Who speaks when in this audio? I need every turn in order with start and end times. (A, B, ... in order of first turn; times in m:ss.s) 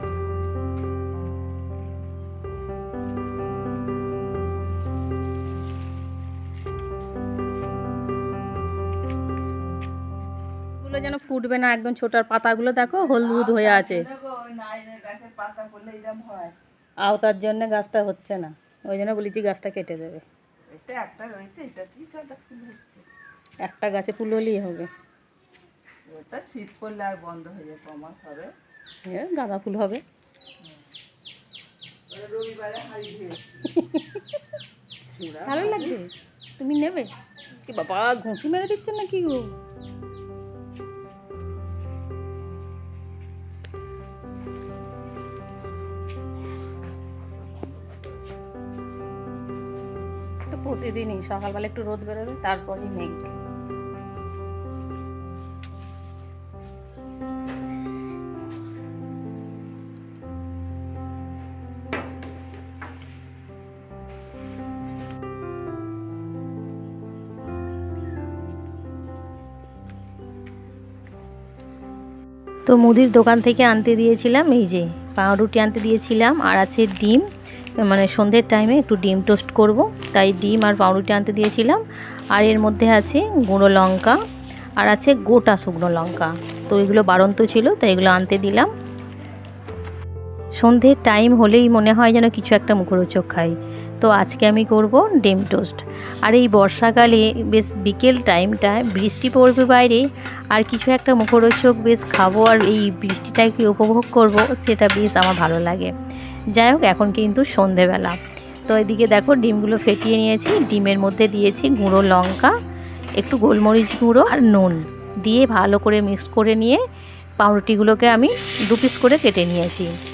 0:10.8-0:14.1 A
0:13.1-0:16.6 B
0:17.0-0:20.2 A
0:20.7-0:23.1 B
0:23.6-0:24.9 A
0:26.1-0:28.5 B
0:29.1-0:30.0 A
0:32.1-0:33.7 B
0:33.7-0:34.4 A
0:35.2-0:36.0 B
0:35.4-0:37.1 A
0:37.7-0:39.6 A
0:50.5-0:53.3 A
1:12.7-1:17.2 C
1:17.8-1:21.8 C
1:22.4-1:24.2 C
1:24.8-1:28.7 C
1:30.6-1:45.9 C
1:46.6-1:48.2 C
1:48.7-1:52.5 C
1:53.2-1:56.8 C
1:57.4-1:59.9 C